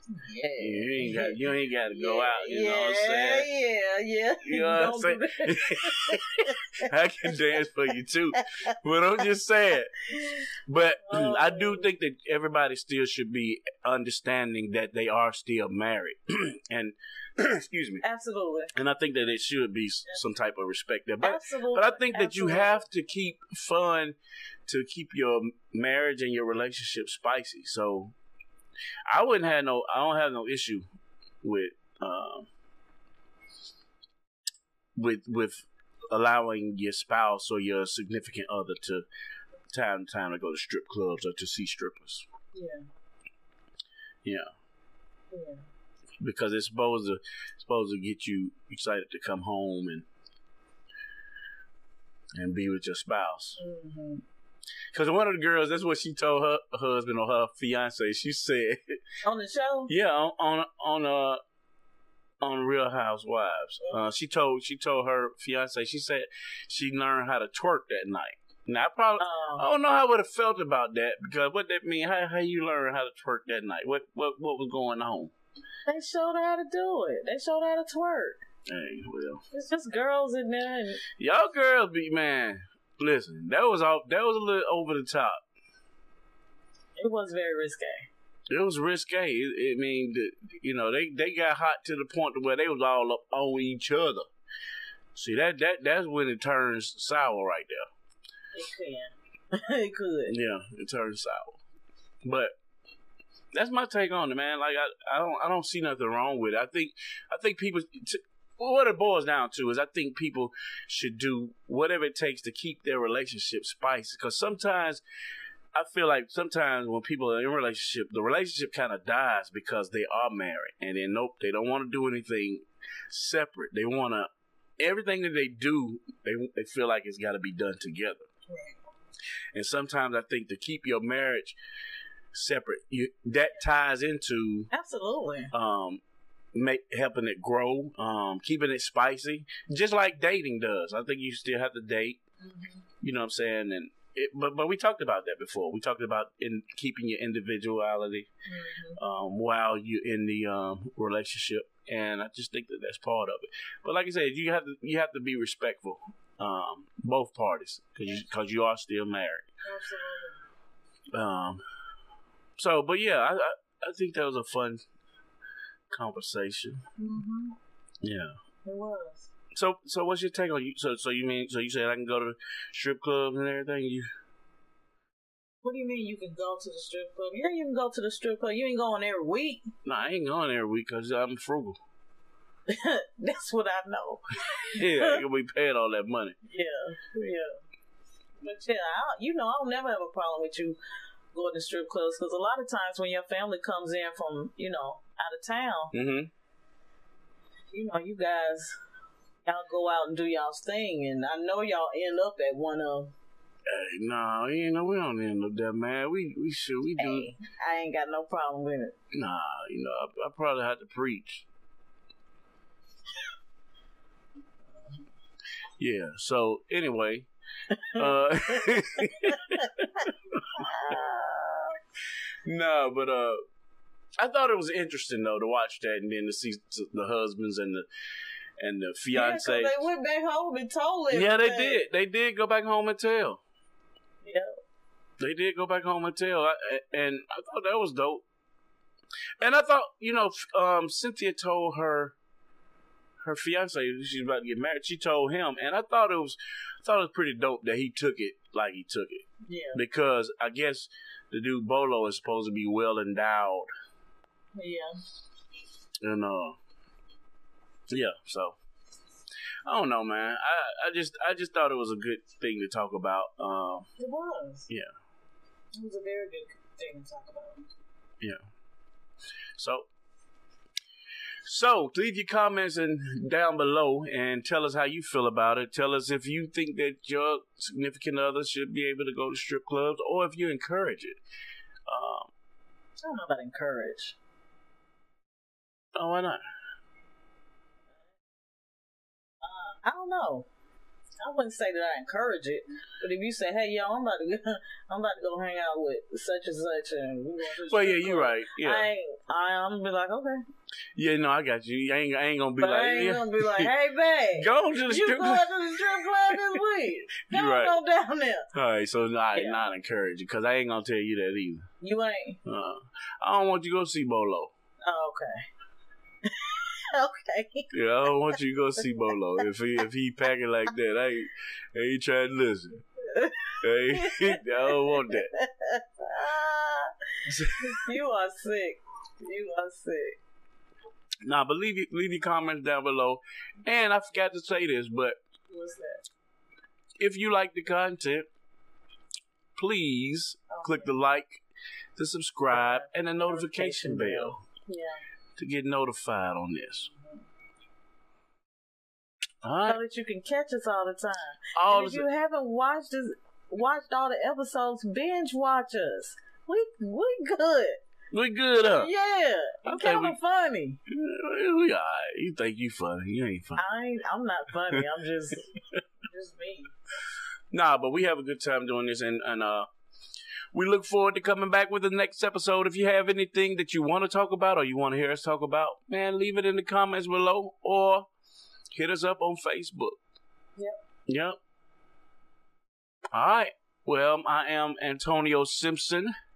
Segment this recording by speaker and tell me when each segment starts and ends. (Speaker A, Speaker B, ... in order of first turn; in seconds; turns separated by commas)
Speaker A: 0.1-7.6, Speaker B: 0.6-3.5, Speaker B: 4.4-18.0, Speaker A: 11.1-11.9, Speaker A: 18.0-18.7, Speaker B: 18.8-28.1, Speaker A: 21.2-22.8, Speaker B: 29.1-30.9, Speaker B: 31.4-32.5, Speaker B: 35.0-39.1, Speaker B: 39.7-42.3, Speaker A: 42.5-42.8, Speaker B: 44.2-44.5, Speaker A: 45.3-45.6, Speaker B: 46.2-50.1, Speaker B: 52.4-53.6, Speaker A: 53.6-54.2, Speaker B: 54.9-59.0, Speaker A: 59.2-59.9, Speaker B: 59.9-61.4, Speaker B: 62.4-75.3, Speaker A: 63.8-64.1, Speaker A: 69.2-69.7, Speaker A: 75.9-78.4, Speaker B: 78.7-79.4, Speaker A: 79.5-81.0, Speaker B: 81.2-85.4, Speaker A: 87.0-88.1, Speaker B: 88.5-94.3, Speaker B: 95.2-97.9, Speaker A: 98.5-100.3, Speaker B: 100.3-101.6, Speaker B: 102.2-102.5, Speaker B: 103.5-115.0, Speaker B: 115.8-128.3, Speaker A: 128.5-128.8, Speaker B: 129.5-131.6, Speaker B: 132.3-134.7, Speaker A: 134.7-135.5, Speaker B: 135.5-136.0, Speaker B: 136.5-142.2, Speaker A: 142.4-142.8, Speaker B: 143.0-148.3, Speaker A: 148.5-149.0, Speaker B: 149.0-159.5, Speaker A: 159.6-160.4, Speaker B: 161.1-161.6, Speaker B: 162.6-164.8, Speaker B: 165.9-166.8, Speaker A: 167.0-167.6, Speaker B: 168.0-168.4, Speaker A: 168.6-169.3, Speaker B: 169.6-174.1, Speaker A: 175.6-179.7, Speaker B: 179.8-181.8, Speaker A: 182.7-185.2, Speaker B: 184.7-186.4, Speaker A: 186.4-187.6, Speaker A: 188.4-190.8, Speaker A: 191.3-195.9, Speaker B: 195.9-196.3, Speaker A: 197.7-198.8, Speaker A: 199.4-203.1, Speaker B: 203.7-207.3, Speaker A: 207.0-209.0, Speaker B: 209.1-211.5, Speaker B: 215.8-217.3, Speaker A: 217.7-221.8, Speaker B: 218.0-220.6, Speaker B: 222.4-223.4, Speaker B: 224.2-227.9, Speaker B: 228.6-229.8, Speaker A: 229.1-231.8, Speaker B: 231.1-233.4, Speaker A: 234.2-234.6, Speaker B: 235.2-238.2, Speaker B: 239.4-242.2, Speaker B: 243.2-249.2, Speaker A: 249.4-249.8, Speaker B: 249.8-253.7, Speaker A: 254.6-254.9, Speaker B: 256.0-256.6, Speaker B: 257.9-258.6, Speaker B: 259.6-263.9, Speaker A: 264.0-264.7, Speaker A: 265.8-267.7, Speaker B: 269.6-269.9, Speaker B: 271.4-281.2, Speaker B: 281.9-282.3, Speaker A: 283.0-284.1, Speaker B: 285.9-286.4, Speaker A: 289.4-290.5, Speaker A: 291.2-300.4, Speaker B: 297.6-298.9, Speaker B: 300.9-303.7, Speaker A: 302.6-308.5, Speaker B: 304.4-306.4, Speaker B: 307.3-307.8, Speaker B: 308.5-311.6, Speaker A: 309.4-309.6, Speaker A: 311.8-312.4, Speaker B: 312.4-314.5, Speaker A: 314.8-315.4, Speaker A: 316.2-318.3, Speaker B: 317.7-322.8, Speaker A: 323.0-326.9, Speaker B: 323.6-325.3, Speaker B: 327.3-327.9, Speaker A: 327.6-330.2, Speaker B: 331.3-335.1, Speaker A: 335.5-336.0, Speaker B: 337.0-338.3, Speaker B: 339.6-341.4, Speaker A: 340.5-340.9, Speaker B: 342.0-344.4, Speaker A: 342.5-345.0, Speaker B: 345.4-346.9, Speaker A: 346.7-347.2, Speaker B: 349.4-349.8, Speaker A: 349.6-357.8, Speaker B: 351.6-352.1, Speaker B: 358.1-358.9, Speaker A: 358.8-360.8, Speaker B: 359.6-360.1, Speaker B: 360.9-363.6, Speaker A: 363.6-366.7, Speaker B: 367.5-369.7, Speaker B: 370.5-378.1, Speaker B: 378.7-380.0, Speaker B: 381.1-381.4, Speaker B: 383.1-386.1